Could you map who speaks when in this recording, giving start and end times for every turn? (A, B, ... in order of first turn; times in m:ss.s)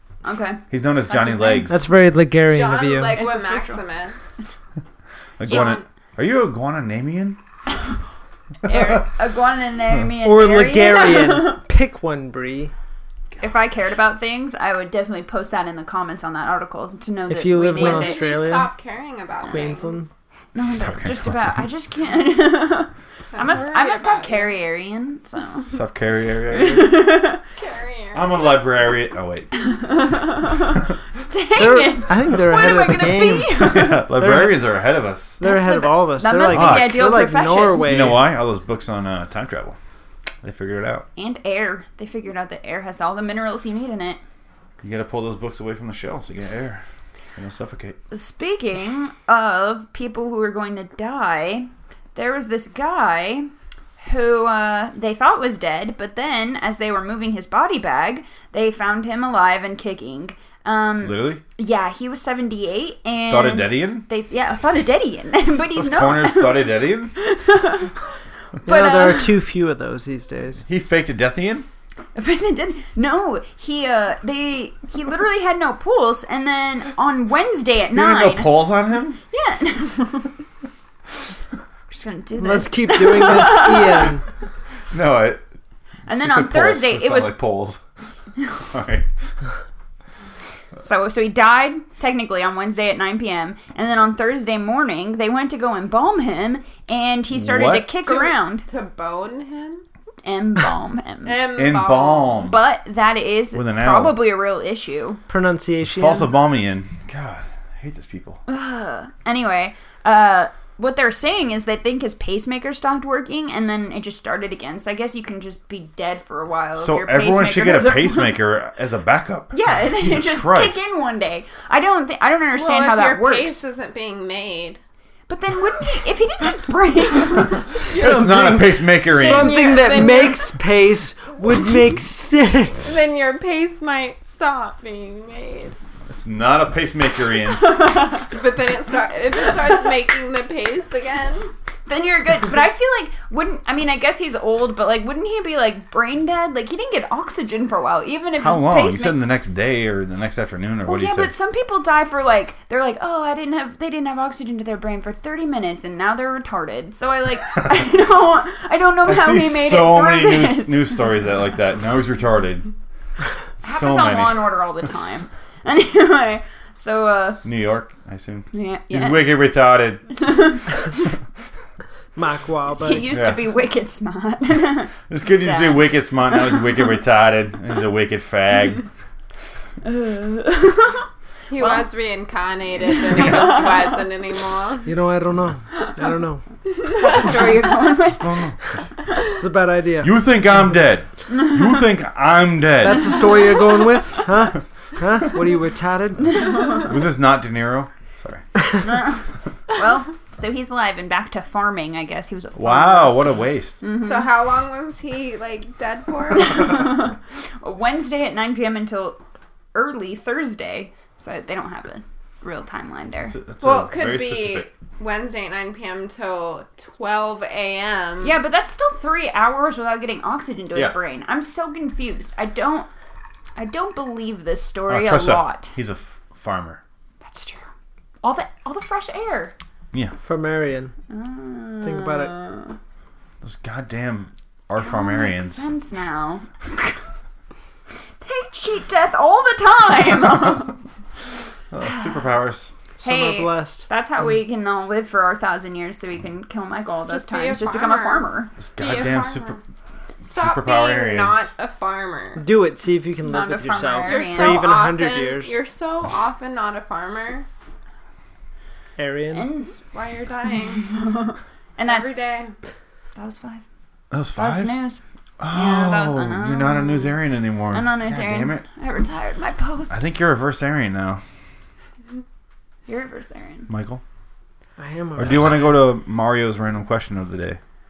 0:00.2-0:01.8 A
0:00.7-0:01.9 B
0:01.7-0:03.2 C
0:02.5-0:04.4 D
0:03.2-0:03.8 A
0:05.4-0:07.4 B
0:05.5-0:05.8 D
0:08.6-0:11.6 A
0:10.2-0:12.7 C
0:13.4-0:18.3 A
0:17.3-0:18.7 C
0:17.8-0:20.1 D
0:19.4-0:20.1 C
0:20.6-0:25.8 A
0:20.7-0:21.7 B
0:23.3-0:24.6 D
0:25.7-0:27.2 B
0:26.5-0:27.4 A
0:27.6-0:28.6 D
0:28.1-0:29.5 B
0:29.6-0:34.0 A
0:31.6-0:34.6 C
0:33.6-0:35.4 B
0:35.4-0:38.3 C
0:35.4-0:37.9 A
0:36.5-0:37.1 B
0:37.8-0:39.8 B
0:40.4-0:41.1 B
0:41.2-0:44.2 A
0:44.8-0:46.8 B
0:47.4-0:48.0 B
0:48.1-1:07.9 A
1:01.0-1:01.4 B
1:03.3-1:04.1 B
1:05.8-1:07.2 B
1:08.7-1:09.3 A
1:08.7-1:10.6 C
1:10.7-1:11.7 B
1:12.2-1:18.7 A
1:17.9-1:19.2 B
1:19.3-1:20.3 A
1:21.9-1:24.1 A
1:22.4-1:24.2 C
1:24.9-1:25.4 B
1:26.1-1:27.4 A
1:26.1-1:27.8 B
1:28.6-1:29.1 B
1:30.8-1:38.7 A
1:37.3-1:37.9 B
1:38.1-1:39.8 D
1:40.2-1:41.4 A
1:41.2-1:42.5 D
1:41.6-1:42.6 B
1:42.4-1:45.2 A
1:43.5-1:44.2 B
1:45.3-1:46.3 C
1:45.8-1:48.4 B
1:48.5-1:58.4 A
1:56.8-2:00.9 B
1:59.5-2:03.6 A
2:02.6-2:04.8 D
2:05.3-2:07.7 A
2:07.8-2:13.0 C
2:07.8-2:09.7 B
2:07.9-2:08.2 D
2:09.1-2:10.5 D
2:12.8-2:15.8 D
2:16.1-2:17.9 B
2:17.6-2:18.2 A
2:18.3-2:21.5 D
2:21.9-2:29.2 A
2:28.4-2:31.3 B
2:30.8-2:41.0 A
2:39.0-2:42.7 B
2:43.6-2:44.5 B
2:43.6-2:47.4 A
2:47.4-2:50.1 B
2:48.5-2:49.4 A
2:50.2-2:51.0 A
2:52.2-2:53.1 C
2:52.7-2:55.9 A
2:53.1-2:53.4 B
2:55.1-2:58.9 B
2:59.8-3:01.9 A
3:01.5-3:04.9 D
3:02.9-3:03.9 A
3:04.9-3:06.4 C
3:06.9-3:08.4 A
3:08.0-3:08.8 B
3:09.4-3:10.2 C
3:10.0-3:13.2 B
3:12.8-3:16.6 C
3:13.2-3:13.8 A
3:16.4-3:16.8 A
3:16.8-3:18.4 B
3:18.8-3:23.3 A
3:22.6-3:23.8 B
3:23.8-3:24.3 A
3:24.0-3:26.9 D
3:26.3-3:29.2 A
3:29.7-3:33.4 A
3:33.3-3:34.7 B
3:33.6-3:38.4 D
3:38.2-3:42.9 A
3:43.6-3:45.8 A
3:44.9-3:46.8 B
3:47.2-3:47.7 A
3:48.2-3:49.5 A
3:50.2-3:50.9 C
3:51.1-3:52.8 A
3:51.8-3:52.4 C
3:53.4-3:55.7 B
3:54.8-3:57.0 A
3:58.2-4:00.8 A
4:01.7-4:02.8 B
4:01.8-4:02.2 A
4:03.0-4:03.9 C
4:03.0-4:08.5 A
4:07.1-4:08.3 D
4:08.6-4:09.6 B
4:08.8-4:09.6 D
4:10.2-4:12.4 D
4:10.2-4:11.5 B
4:12.4-4:15.6 C
4:13.3-4:14.7 A
4:14.0-4:17.5 D
4:19.0-4:19.5 C
4:19.3-4:19.8 A
4:19.9-4:20.9 D
4:20.8-4:22.2 A
4:21.8-4:22.6 D
4:23.2-4:23.6 A
4:24.1-4:24.8 B
4:24.4-4:30.0 A
4:25.4-4:28.6 B
4:29.9-4:31.2 B
4:32.9-4:33.7 A
4:33.7-4:34.0 B
4:34.8-4:35.7 C
4:35.2-4:37.6 B